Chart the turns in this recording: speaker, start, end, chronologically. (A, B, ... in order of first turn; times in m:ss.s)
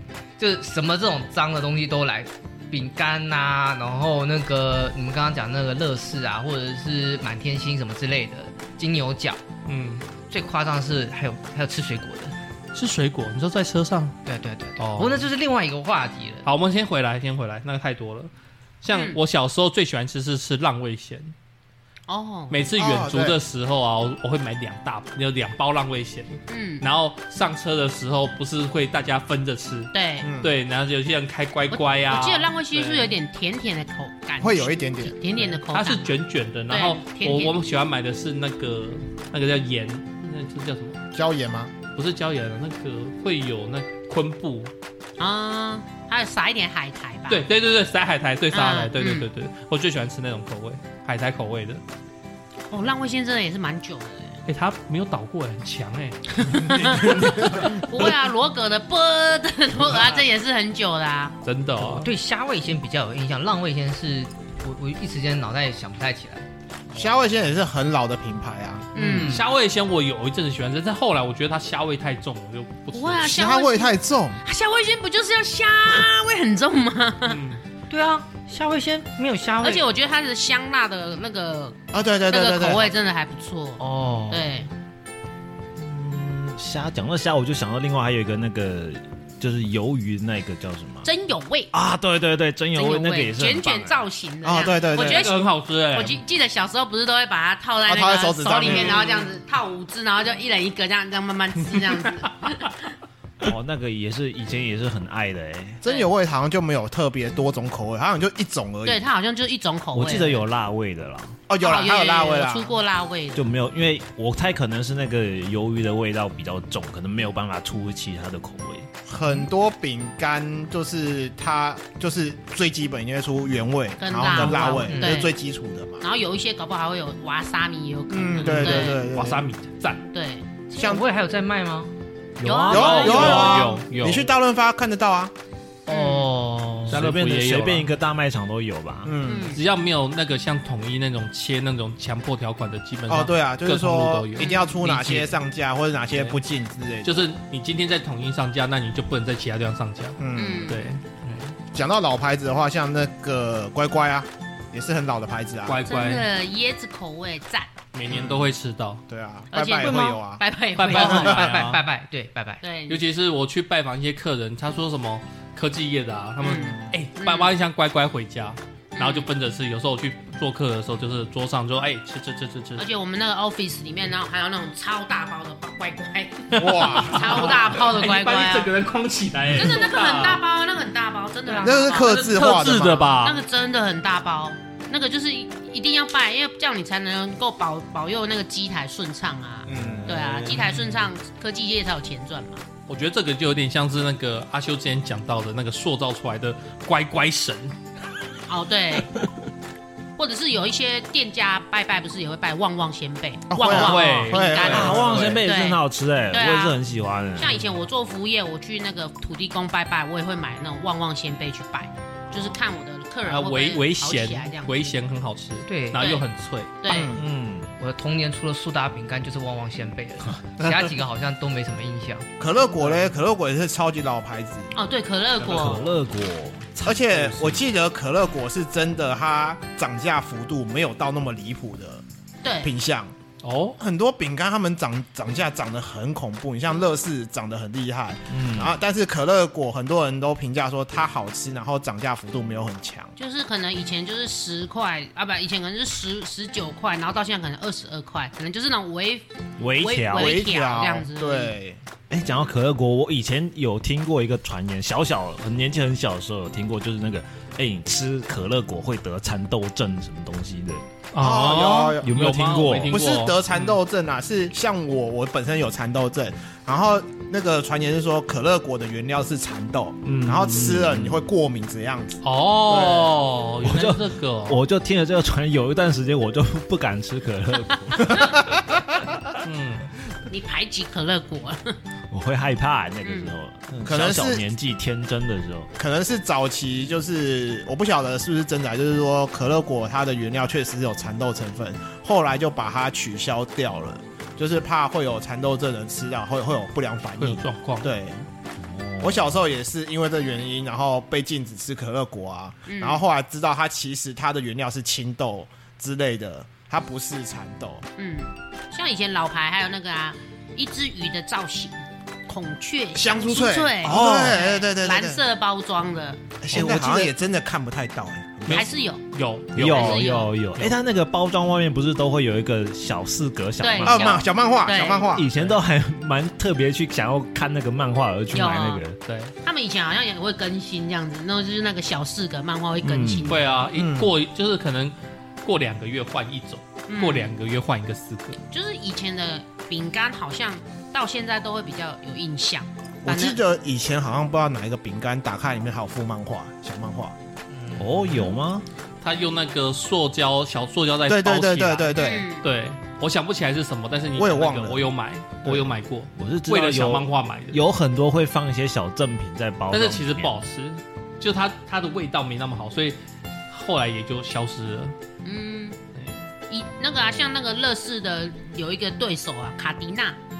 0:00.4-0:09.4 A
0:09.6-0:10.0 B
0:10.3-0:12.4 A
0:12.7-0:14.2 B
0:14.2-0:16.5 A
0:14.8-0:15.3 B
0:16.4-0:18.3 B
0:18.8-0:21.3 B
0:18.9-0:19.2 C
0:22.1-0:22.7 C
0:22.5-0:33.2 B
0:22.8-0:23.4 D
0:26.5-0:26.8 C
0:29.9-0:30.3 C
0:30.2-0:30.5 D
0:31.7-0:36.0 C
0:34.4-0:35.2 D
0:35.5-0:41.0 B
0:36.7-0:37.5 C
0:41.1-0:41.7 D
0:42.0-0:44.7 B
0:45.2-0:47.4 C
0:47.3-0:51.8 B
0:48.5-0:49.3 C
0:52.7-0:54.4 C
0:54.5-0:57.1 B
0:56.4-1:01.4 C
0:56.7-0:57.7 D
1:01.4-1:02.1 B
1:01.8-1:06.5 A
1:06.9-1:08.9 D
1:09.0-1:09.4 C
1:09.0-1:09.5 A
1:09.1-1:13.3 B
1:12.9-1:17.4 C
1:13.2-1:14.4 D
1:17.2-1:17.6 B
1:17.9-1:19.8 A
1:19.6-1:24.7 C
1:21.9-1:22.9 D
1:23.8-1:24.5 A
1:25.8-1:31.1 E
1:31.0-1:31.7 C
1:31.7-1:34.0 E
1:32.7-1:42.9 C
1:34.4-1:35.3 D
1:34.9-1:36.2 B
1:37.8-1:39.1 D
1:38.6-1:39.2 B
1:43.4-1:45.8 E
1:45.8-1:49.0 D
1:48.9-1:50.5 C
1:49.9-1:51.4 E
1:51.5-1:52.8 D
1:51.6-1:53.5 C
1:53.4-1:58.9 E
1:59.1-2:06.0 D
2:04.0-2:05.3 C
2:04.4-2:05.2 A
2:06.0-2:09.0 C
2:08.1-2:09.4 D
2:08.4-2:10.0 B
2:10.1-2:10.5 C
2:10.7-2:11.9 A
2:10.8-2:11.0 D
2:12.4-2:13.6 E
2:12.4-2:13.6 C
2:12.7-2:14.3 B
2:12.7-2:15.3 D
2:15.9-2:17.0 A
2:15.9-2:16.3 C
2:16.9-2:19.1 E
2:16.9-2:17.9 B
2:19.0-2:19.6 D
2:19.2-2:19.6 C
2:19.5-2:25.4 B
2:23.1-2:27.2 D
2:24.4-2:24.7 C
2:27.0-2:31.4 B
2:30.2-2:30.8 D
2:30.4-2:30.9 C
2:31.7-2:35.8 D
2:35.6-2:36.3 B
2:35.9-2:37.7 C
2:37.9-2:39.0 B
2:38.1-2:38.5 D
2:39.1-2:40.4 D
2:39.5-2:41.5 C
2:40.8-2:41.8 B
2:40.8-2:42.6 A
2:42.6-2:43.0 C
2:42.9-2:52.9 B
2:46.4-2:47.5 C
2:49.0-2:49.3 C
2:52.8-2:58.7 C
2:56.5-3:00.4 B
2:56.6-2:57.5 D
2:59.5-3:02.2 C
3:01.6-3:03.2 D
3:01.9-3:03.4 B
3:03.2-3:12.6 C
3:09.6-3:10.6 D
3:09.8-3:10.3 E
3:12.9-3:17.8 B
3:18.5-3:19.1 C
3:20.2-3:26.8 C
3:23.5-3:25.4 D
3:23.6-3:25.2 B
3:24.7-3:27.6 E
3:27.4-3:34.9 C
3:33.2-3:36.7 B
3:35.6-3:36.1 A
3:36.0-3:36.3 C
3:36.8-3:37.1 C
3:36.9-3:37.2 D
3:37.1-3:37.7 E
3:37.8-3:42.3 A
3:42.4-3:44.7 D
3:44.8-3:45.9 C
3:45.4-3:47.6 E
3:46.8-3:52.0 D
3:52.4-3:52.7 C
3:52.6-3:53.1 D
3:53.4-3:53.8 B
3:53.8-4:03.1 D
3:58.3-3:58.7 E
4:03.2-4:11.5 C
4:09.6-4:10.4 E
4:10.1-4:11.8 D
4:12.1-4:20.8 E
4:21.1-4:23.8 B
4:21.2-4:22.2 D
4:22.0-4:23.0 E
4:22.9-4:33.1 D
4:30.1-4:31.2 E
4:32.2-4:34.6 B
4:33.6-4:38.5 E
4:38.1-4:38.5 D
4:39.4-4:39.9 B
4:40.3-4:41.8 C
4:42.1-4:45.7 E
4:43.0-4:43.3 C
4:43.8-4:44.5 D
4:45.8-4:58.2 D
4:57.2-4:57.9 B
4:58.6-4:59.2 E
4:59.0-5:07.9 D
5:02.7-5:03.0 C
5:08.0-5:16.4 C
5:12.9-5:15.2 D
5:13.8-5:14.4 E
5:16.4-5:18.7 D
5:16.5-5:17.1 E
5:18.5-5:20.0 B
5:18.5-5:19.0 C
5:19.5-5:24.2 E
5:19.6-5:20.4 C
5:23.6-5:25.1 C
5:23.8-5:25.3 D
5:25.1-5:29.0 E
5:28.3-5:28.8 C
5:29.1-5:29.3 B
5:29.4-5:33.4 C
5:32.8-5:33.4 E
5:33.2-5:38.4 B
5:33.7-5:34.1 D
5:36.9-5:37.3 C
5:38.5-5:43.4 C
5:43.0-5:47.1 D
5:47.5-5:48.3 A
5:47.8-5:48.6 E
5:49.0-5:57.6 B
5:51.1-5:52.3 D
5:51.9-5:52.5 C
5:54.1-5:54.9 D
5:56.2-6:00.4 E
5:59.7-6:03.0 B
6:03.5-6:05.0 B
6:05.2-6:05.8 C
6:06.0-6:06.2 B
6:06.5-6:10.2 C